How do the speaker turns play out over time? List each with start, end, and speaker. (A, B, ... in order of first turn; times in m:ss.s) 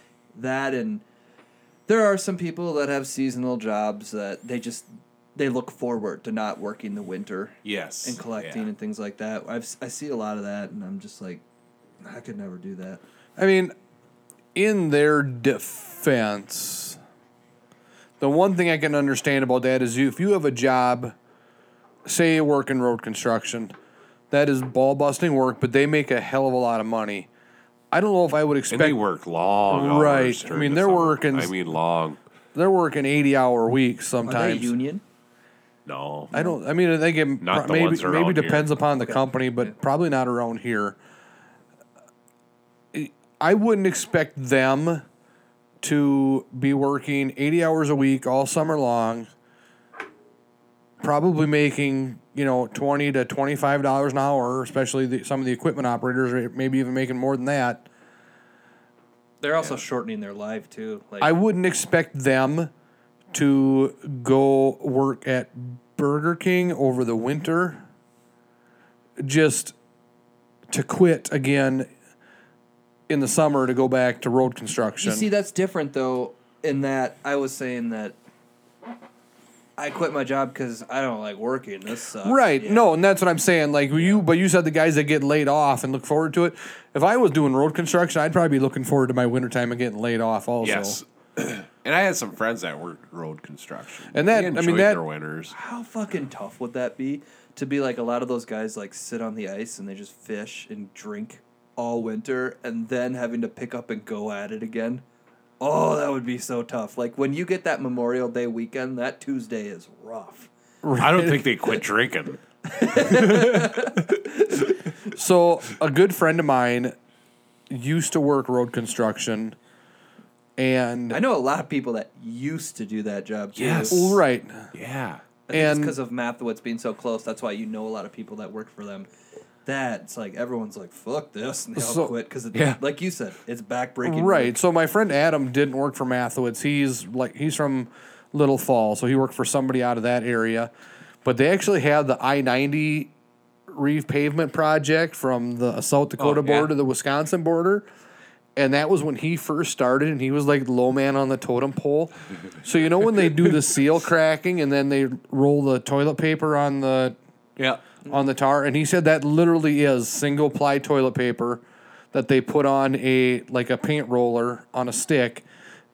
0:00.3-0:01.0 A
0:01.9-0:11.4 A
0:07.6-0:08.7 B
0:12.0-0:13.0 A
0:13.4-0:13.7 C
0:14.5-0:17.0 C
0:18.2-0:21.1 C
0:22.0-0:23.7 C
0:24.3-0:27.3 C
0:27.9-0:29.0 C
0:28.7-0:32.2 B
0:29.7-0:31.5 C
0:32.5-0:34.7 C
0:34.2-0:35.0 A
0:35.8-0:36.3 B
0:36.3-0:41.0 C
0:36.3-0:36.6 A
0:37.4-0:38.7 B
0:39.0-0:39.7 A
0:42.9-0:45.0 C
0:45.8-0:49.3 C
0:51.0-0:57.8 C
0:59.4-1:01.3 A
1:01.2-1:02.7 C
1:03.3-1:07.8 C
1:09.2-1:09.7 C
1:10.7-1:11.9 C
1:13.1-1:15.3 C
1:15.0-1:18.1 A
1:19.8-1:22.8 A
1:22.2-1:31.0 C
1:30.6-1:35.5 B
1:34.1-1:35.0 C
1:35.5-1:45.0 A
1:45.6-1:50.5 A
1:50.8-1:51.5 C
1:51.0-1:52.4 B
1:52.7-1:54.5 A
1:53.0-1:53.8 B
1:55.1-1:56.9 C
1:57.7-1:59.6 C
2:00.6-2:01.2 C
2:01.1-2:04.1 A
2:03.5-2:04.2 B
2:03.9-2:04.7 C
2:04.7-2:05.2 B
2:05.5-2:09.1 A
2:05.5-2:06.0 C
2:09.6-2:14.6 A
2:11.8-2:12.1 C
2:12.5-2:12.8 B
2:14.0-2:20.7 C
2:21.2-2:23.1 C
2:23.7-2:27.9 C
2:26.2-2:26.7 B
2:28.6-2:37.2 C
2:37.6-2:37.8 B
2:38.1-2:45.4 C